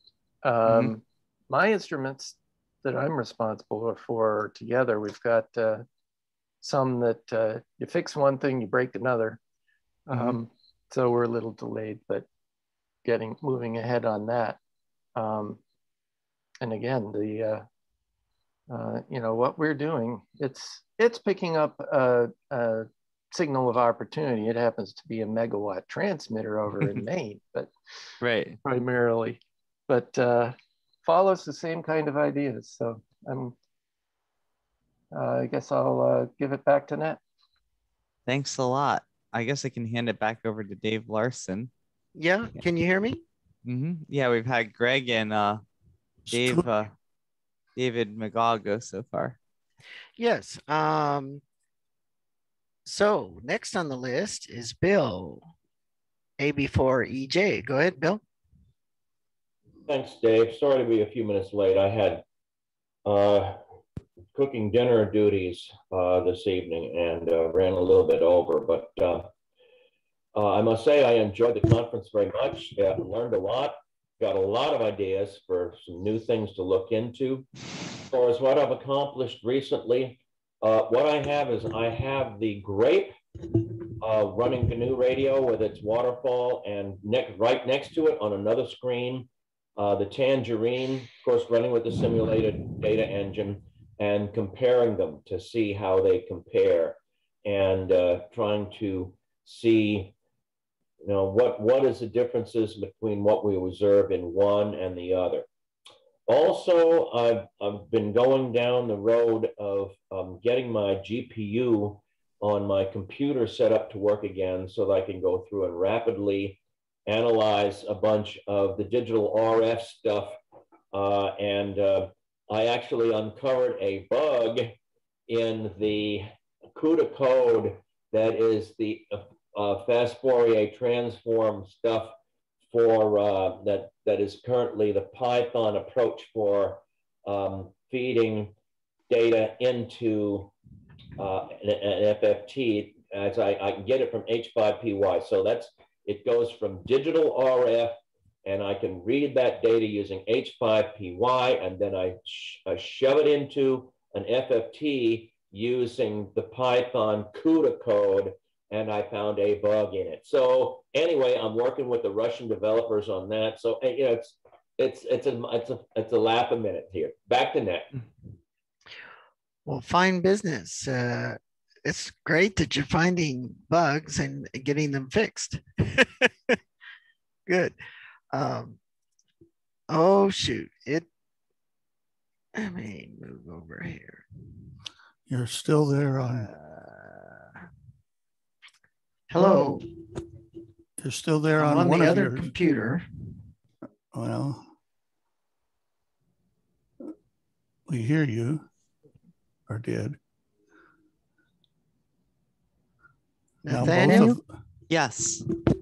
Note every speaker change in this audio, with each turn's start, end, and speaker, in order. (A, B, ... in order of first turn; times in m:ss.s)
0:00.4-0:05.8 A
0:00.6-0:00.9 B
0:06.6-0:09.4 A
0:10.1-0:12.2 A
0:10.1-0:10.4 B
0:13.0-0:14.6 A
0:15.2-0:15.6 A
0:16.6-0:17.6 A
0:18.7-0:27.7 A
0:28.2-0:28.6 B
0:28.6-0:33.5 A
0:35.1-0:37.2 A
0:38.3-0:41.7 B
0:42.2-0:43.2 C
0:43.6-0:45.6 B
0:46.3-0:46.9 B
0:46.3-0:46.7 D
0:47.8-0:49.4 B
0:50.2-0:51.4 C
0:52.8-0:55.5 C
0:56.4-0:58.2 C
0:59.8-1:02.2 E
1:03.0-1:03.6 E
1:04.3-1:09.3 E
1:10.4-1:17.5 E
1:18.0-1:23.2 E
1:24.0-1:40.1 E
1:41.0-1:45.5 E
1:46.3-2:00.4 E
2:00.9-2:04.8 E
2:05.3-2:12.1 E
2:12.7-2:18.5 E
2:19.1-2:20.5 E
2:21.2-2:47.9 E
2:49.6-2:56.5 C
2:57.5-2:57.7 C
2:58.3-2:58.8 C
2:59.9-3:01.1 C
3:02.6-3:04.2 C
3:05.3-3:06.5 D
3:06.3-3:07.4 C
3:09.3-3:09.9 C
3:11.0-3:12.5 D
3:11.6-3:13.0 C
3:14.1-3:14.6 D
3:17.9-3:18.6 D
3:19.7-3:20.2 D
3:23.6-3:24.4 C
3:23.7-3:24.4 D
3:24.9-3:25.4 B